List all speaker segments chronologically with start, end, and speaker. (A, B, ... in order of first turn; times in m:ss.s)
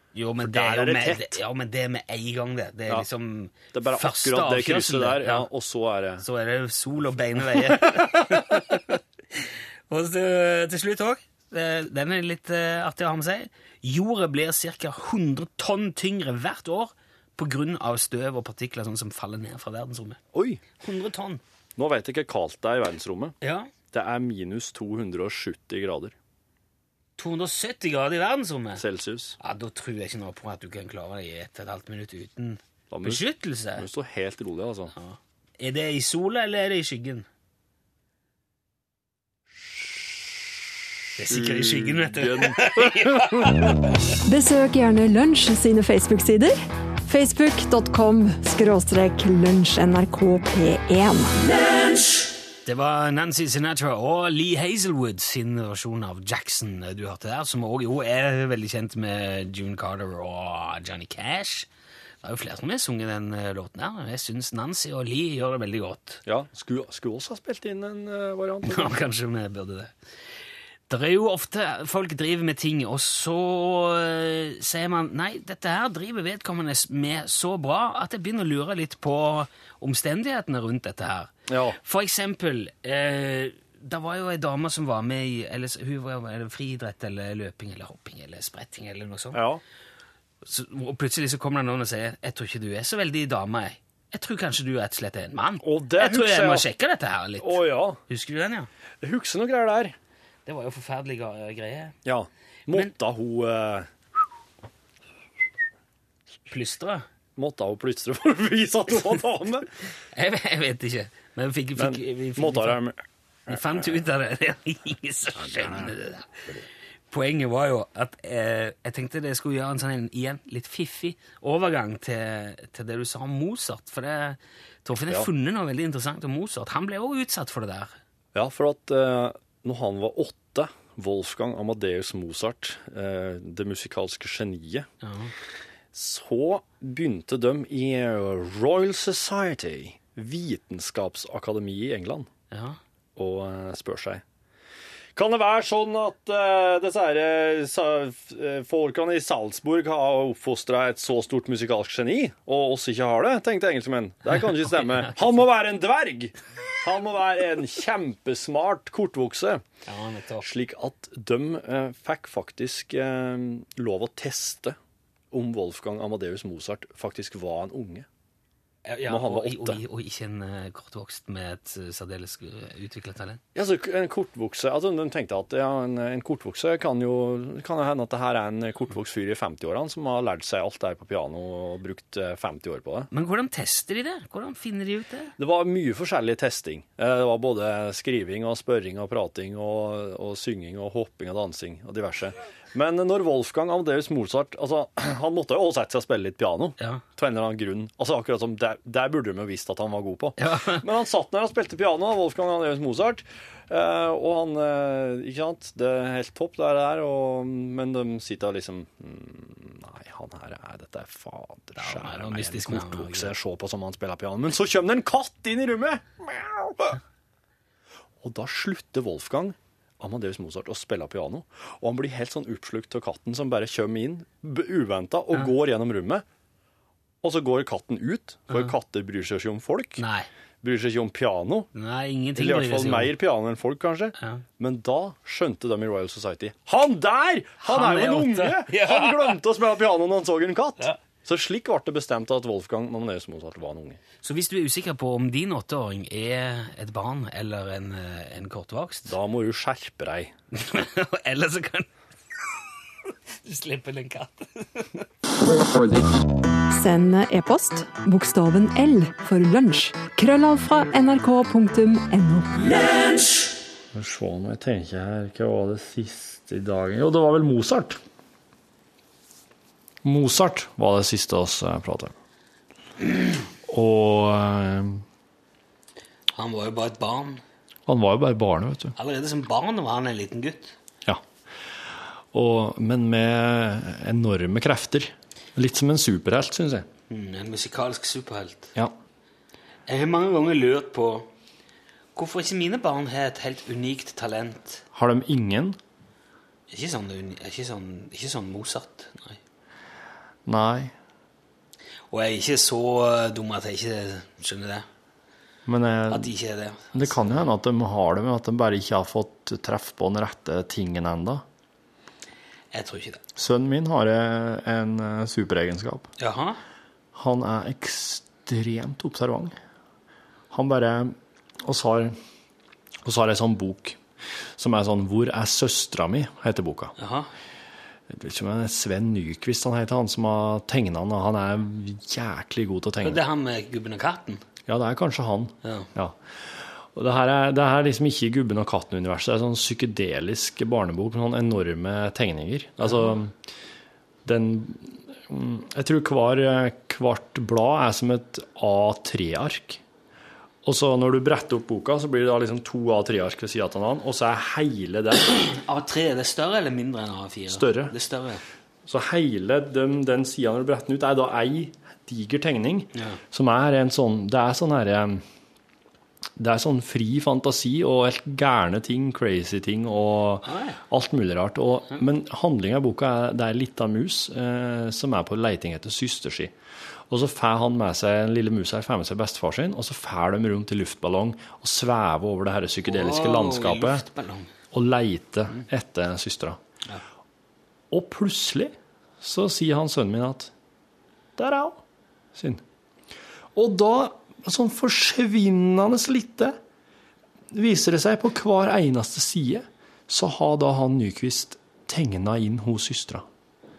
0:00.2-0:05.5 A
0:00.4-0:01.4 B
0:03.7-0:06.2 B
0:06.2-0:20.2 A
0:07.5-0:08.6 B
0:20.3-0:20.6 B
0:20.8-0:21.4 A
0:21.8-0:23.4 B
0:23.4-0:23.7 A
0:23.9-0:26.2 B
0:27.2-0:28.8 A
0:28.8-0:29.4 B
0:29.4-0:33.9 A
0:32.9-0:33.2 B
0:33.8-0:34.9 B
0:35.0-0:37.3 A
0:39.7-0:40.3 B
0:41.2-0:44.1 A
0:41.3-0:43.7 B
0:44.3-0:51.4 C
0:52.6-1:01.7 A
1:02.2-1:06.2 A
1:06.3-1:09.0 B
1:08.6-1:09.9 A
1:10.9-1:29.4 A
1:21.5-1:21.8 B
1:29.3-1:29.6 B
1:30.4-1:38.7 A
1:35.6-1:36.7 B
1:37.4-1:38.0 B
1:39.0-1:40.0 B
1:40.5-1:42.0 A
1:42.0-1:43.9 B
1:46.5-1:47.0 A
1:47.4-1:49.7 B
1:50.1-1:52.8 A
1:51.8-1:54.0 B
1:53.5-1:56.4 A
1:55.4-1:55.9 B
1:57.1-2:08.0 A
2:05.0-2:05.3 B
2:08.3-2:14.9 B
2:15.0-2:15.3 A
2:15.9-2:22.3 B
2:22.5-2:22.8 A
2:23.2-2:24.2 B
2:25.2-2:39.6 B
2:39.9-2:40.4 A
2:40.4-2:44.8 B
2:45.3-2:48.1 B
2:48.8-2:53.4 A
2:49.1-2:49.8 B
2:53.5-3:03.1 B
3:03.1-3:05.4 A
3:05.4-3:37.0 B
3:20.4-3:20.8 A
3:31.8-3:33.3 A
3:38.2-3:46.2 B
3:47.2-3:50.0 B
3:50.0-3:50.3 A
3:50.6-3:51.7 B
3:51.7-3:53.2 A
3:52.4-4:04.0 B
3:54.2-3:54.4 A
3:57.6-3:59.4 A
4:04.2-4:09.1 A
4:09.1-4:10.3 B
4:10.5-4:11.9 A
4:13.4-4:15.1 A
4:16.7-4:22.9 C
4:23.9-4:28.0 B
4:30.0-4:32.1 B
4:33.7-4:35.0 B
4:36.3-4:37.4 A
4:37.9-4:38.9 B
4:39.0-4:40.8 A
4:42.3-4:46.9 B
4:47.1-4:48.7 A
4:49.9-4:51.3 A
4:52.2-4:54.8 A
4:54.9-4:55.8 B
4:56.7-4:59.4 A
5:00.5-5:00.9 B
5:02.1-5:04.9 A
5:05.7-5:06.3 B
5:06.1-5:07.5 A
5:06.9-5:11.4 B
5:12.7-5:13.2 A
5:13.4-5:16.1 B
5:16.2-5:16.6 A
5:17.2-5:19.6 B
5:20.5-5:22.2 B
5:23.0-5:24.0 B
5:24.6-5:26.9 B
5:27.0-5:27.3 A
5:28.1-5:33.2 B
5:33.0-5:34.4 A
5:34.7-5:43.3 B
5:35.6-5:35.9 A
5:44.2-5:49.8 B
5:50.6-5:55.4 B
5:55.4-5:58.4 A
5:57.5-5:57.9 B
5:58.9-6:05.2 B
6:06.4-6:16.5 B
6:10.4-6:10.8 A
6:17.1-6:24.0 B
6:22.8-6:24.5 A
6:24.7-6:26.6 B
6:27.9-6:30.5 B
6:31.4-6:31.8 B
6:32.4-6:32.6 B
6:33.6-6:36.6 B
6:37.5-6:43.2 B